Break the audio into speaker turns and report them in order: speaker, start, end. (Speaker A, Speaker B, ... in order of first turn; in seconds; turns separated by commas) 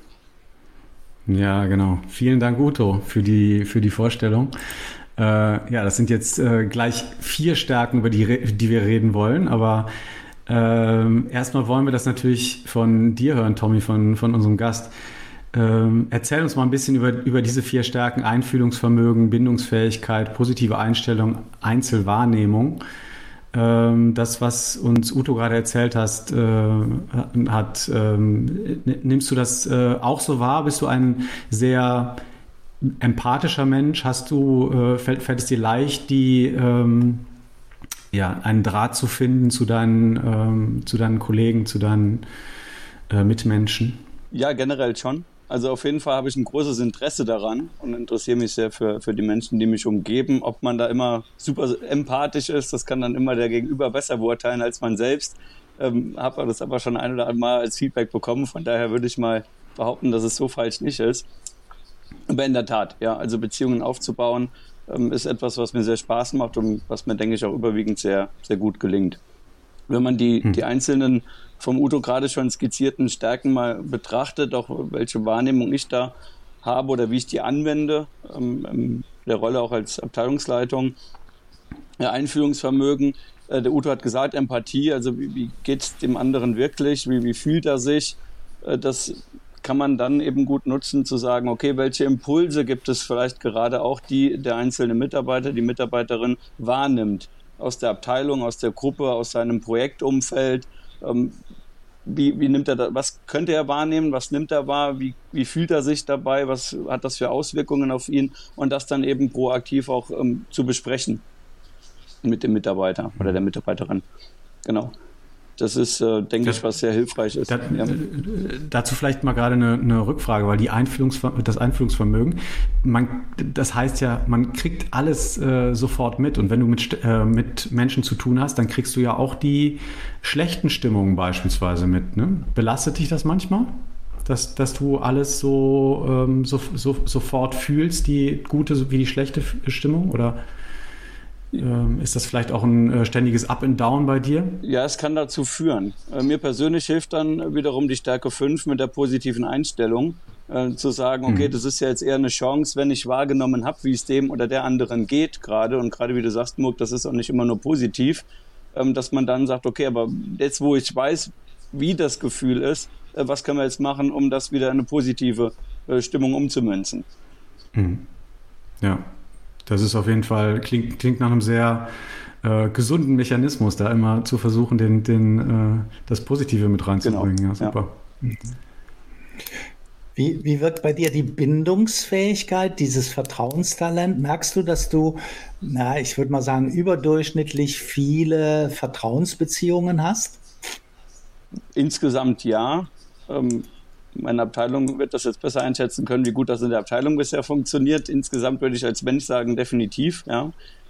Speaker A: 1.3-4.5, Speaker A: 5.2-9.9, Speaker A: 10.5-14.9, Speaker A: 15.5-22.8, Speaker A: 23.5-32.2, Speaker A: 32.8-37.3, Speaker A: 38.1-42.2, Speaker A: 43.1-44.0, Speaker B: 44.3-61.3, Speaker B: 62.3-69.2, Speaker B: 69.9-80.9, Speaker B: 82.0-101.4, Speaker B: 102.0-111.2, Speaker B: 112.2-114.0, Speaker B: 114.6-114.9, Speaker B: 115.6-117.9, Speaker A: 117.5-140.4, Speaker A: 141.5-144.6, Speaker B: 144.6-167.0, Speaker A: 167.7-168.0, Speaker A: 168.8-169.1, Speaker A: 169.7-171.9, Speaker A: 172.4-177.9, Speaker B: 177.0-177.8, Speaker C: 178.2-178.5, Speaker C: 180.2-190.4, Speaker B: 191.7-200.5